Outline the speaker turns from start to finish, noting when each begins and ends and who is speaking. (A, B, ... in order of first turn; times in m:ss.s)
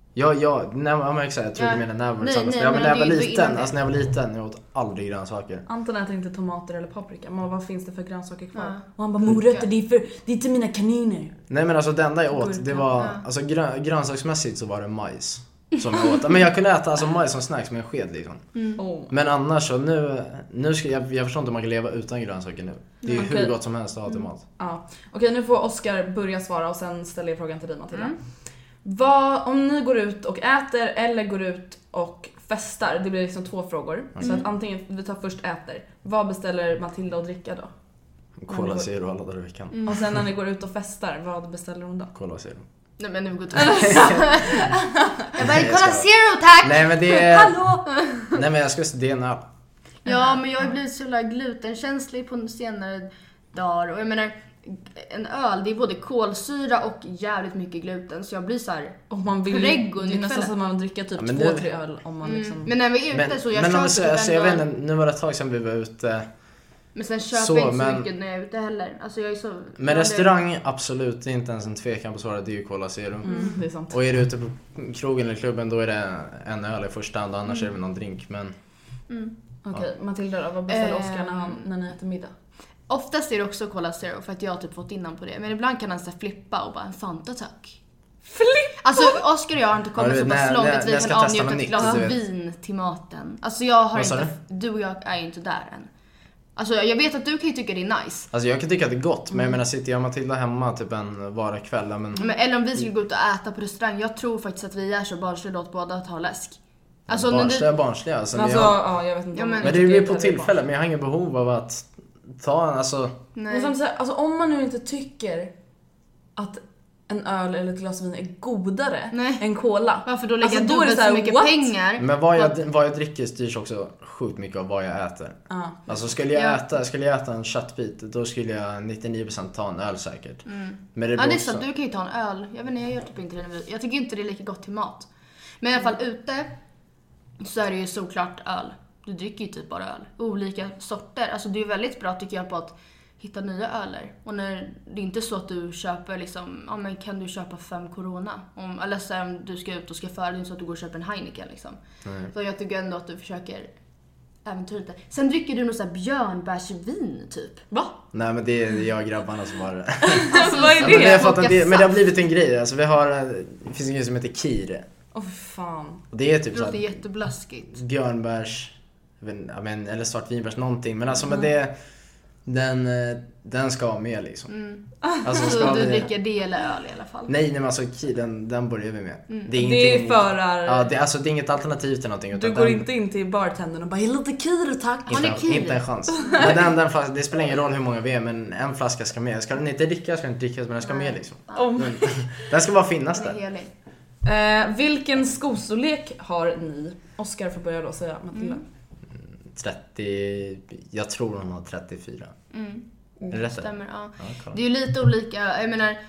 0:00.2-0:05.6 A
0:01.6-0:03.8 B
0:05.7-0:11.4 C
0:08.5-0:09.7 B
0:11.5-0:18.4 A
0:12.3-0:12.9 C
0:13.0-0:13.2 B
0:18.8-0:19.1 C
0:19.1-0:24.4 A
0:23.0-0:23.3 B
0:23.1-0:23.6 C
0:24.6-0:28.2 C
0:28.8-0:37.7 C
0:34.2-0:34.4 A
0:34.2-0:34.4 B
0:38.4-0:40.0 A
0:38.5-0:38.9 C
0:39.7-0:40.0 B
0:39.9-0:42.1 C
0:42.1-0:42.6 A
0:43.0-0:44.7 B
0:43.6-0:44.1 C
0:43.9-0:44.2 A
0:45.3-0:48.4 B
0:45.4-0:46.1 A
0:46.6-0:47.6 A
0:48.3-0:49.4 A
0:50.0-1:00.5 B
0:50.1-0:50.4 C
0:59.1-1:02.7 C
1:01.2-1:01.7 A
1:02.2-1:04.6 B
1:03.1-1:06.3 A
1:07.0-1:10.3 B
1:07.3-1:08.1 A
1:09.8-1:18.5 A
1:13.2-1:14.0 C
1:13.3-1:13.6 B
1:19.1-1:19.3 B
1:19.6-1:22.3 C
1:20.7-1:21.7 B
1:22.9-1:27.8 B
1:28.3-1:29.2 C
1:28.8-1:35.9 B
1:30.0-1:32.2 A
1:33.9-1:34.3 A
1:36.6-1:38.3 B
1:38.3-1:42.9 A
1:42.2-1:47.7 B
1:47.1-1:48.8 A
1:48.3-1:50.6 C
1:49.3-1:49.9 B
1:49.6-1:53.2 A
1:53.4-1:53.7 B
1:53.5-1:55.5 C
1:56.4-2:01.7 C
1:59.1-1:59.4 B
2:00.0-2:02.6 B
2:02.0-2:11.7 A
2:05.5-2:06.1 C
2:06.3-2:06.6 B
2:10.5-2:15.1 B
2:15.6-2:16.5 B
2:17.4-2:33.7 B
2:32.0-2:32.3 A
2:34.4-2:37.7 B
2:38.1-2:44.9 A
2:40.0-2:41.3 C
2:40.3-2:42.0 B
2:45.1-2:46.0 C
2:46.1-2:47.0 A
2:46.5-2:47.8 B
2:47.7-2:51.7 A
2:52.5-2:54.5 A
2:54.5-2:57.3 B
2:55.0-2:55.8 C
2:55.2-2:56.1 A
2:57.3-3:02.9 A
2:59.5-3:00.9 C
3:02.3-3:05.2 C
3:05.1-3:13.4 A
3:05.1-3:06.3 B
3:10.8-3:11.8 B
3:11.5-3:12.3 C
3:13.2-3:13.7 B
3:14.2-3:18.6 C
3:18.4-3:18.6 B
3:19.2-3:22.3 A
3:22.5-3:26.0 B
3:23.3-3:24.6 A